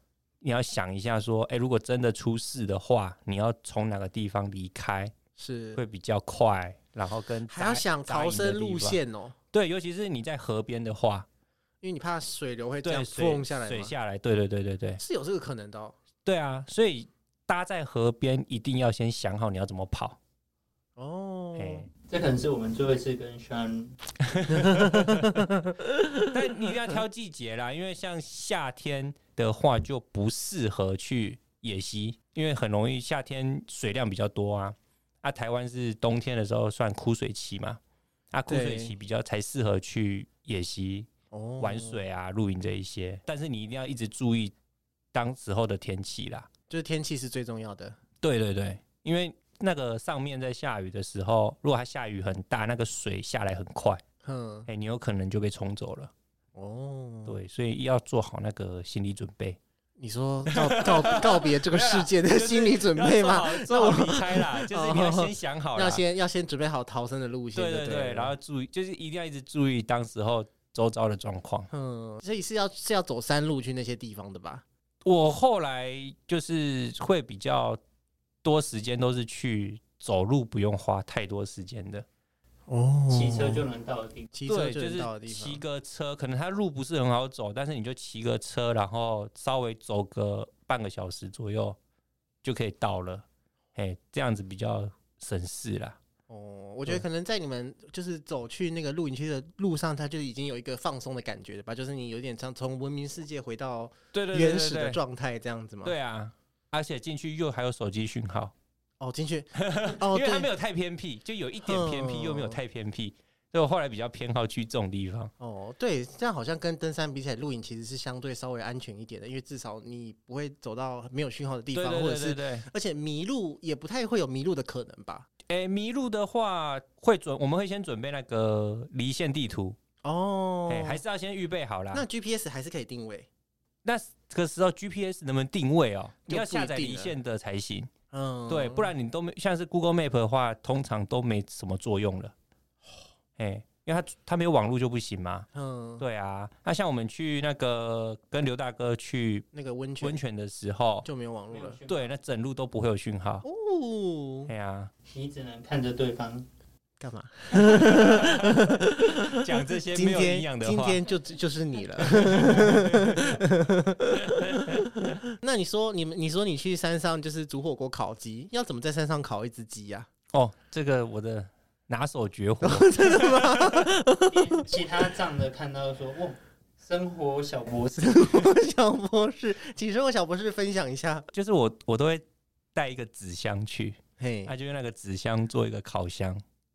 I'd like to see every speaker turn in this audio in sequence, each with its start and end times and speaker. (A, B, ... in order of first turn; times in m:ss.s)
0:00.4-0:05.1 A
0:05.4-0:05.8 B
0:05.8-0:09.0 A
0:07.5-0:09.3 B
0:09.5-0:11.2 A
0:11.8-0:13.9 B
0:12.8-0:15.0 A
0:15.0-0:16.0 B
0:16.2-0:20.2 A
0:21.0-0:21.8 B
0:21.6-0:21.9 A
0:22.1-0:24.0 C
0:24.2-0:25.4 A
0:24.6-0:25.9 B
0:26.2-0:37.8 A
0:38.3-0:41.1 A
0:38.5-0:38.9 B
0:41.3-0:42.0 B
0:41.6-0:44.5 A
0:45.1-0:46.5 A
0:46.7-0:48.0 B
0:48.2-0:54.0 A
0:54.2-0:54.7 B
0:54.7-0:56.1 A
0:56.5-0:57.4 B
0:57.2-0:59.6 A
1:00.0-1:08.3 B
1:00.5-1:06.0 A
1:07.5-1:11.7 A
1:11.7-1:14.6 B
1:15.0-1:17.8 A
1:18.4-1:22.0 A
1:22.7-1:23.6 B
1:23.1-1:24.3 C
1:24.3-1:25.6 B
1:24.5-1:31.8 A
1:32.4-1:36.0 A
1:36.3-1:45.9 B
1:44.1-1:45.0 A
1:45.8-1:48.5 A
1:49.0-1:50.5 B
1:49.6-1:55.3 A
1:51.6-1:52.6 B
1:55.4-2:05.3 B
2:01.7-2:02.7 A
2:05.5-2:09.8 A
2:10.0-2:11.0 B
2:10.7-2:12.0 A
2:11.9-2:13.3 B
2:13.8-2:17.9 A
2:16.3-2:17.1 B
2:18.1-2:18.9 B
2:18.5-2:22.3 A
2:23.4-2:25.5 A
2:25.5-2:26.0 B
2:26.0-2:29.4 A
2:29.5-2:30.2 B
2:30.0-2:31.1 A
2:31.0-2:31.8 B
2:31.5-2:32.1 C
2:31.9-2:33.4 A
2:33.4-2:34.5 B
2:34.5-2:34.9 A
2:35.1-2:36.4 C
2:37.0-2:50.1 B
2:37.5-2:41.0 A
2:42.1-2:43.4 A
2:44.1-2:44.9 A
2:50.3-2:53.8 A
2:52.6-2:54.6 B
2:54.3-2:58.3 C
2:58.0-3:01.3 B
3:01.3-3:06.4 A
3:04.2-3:04.5 B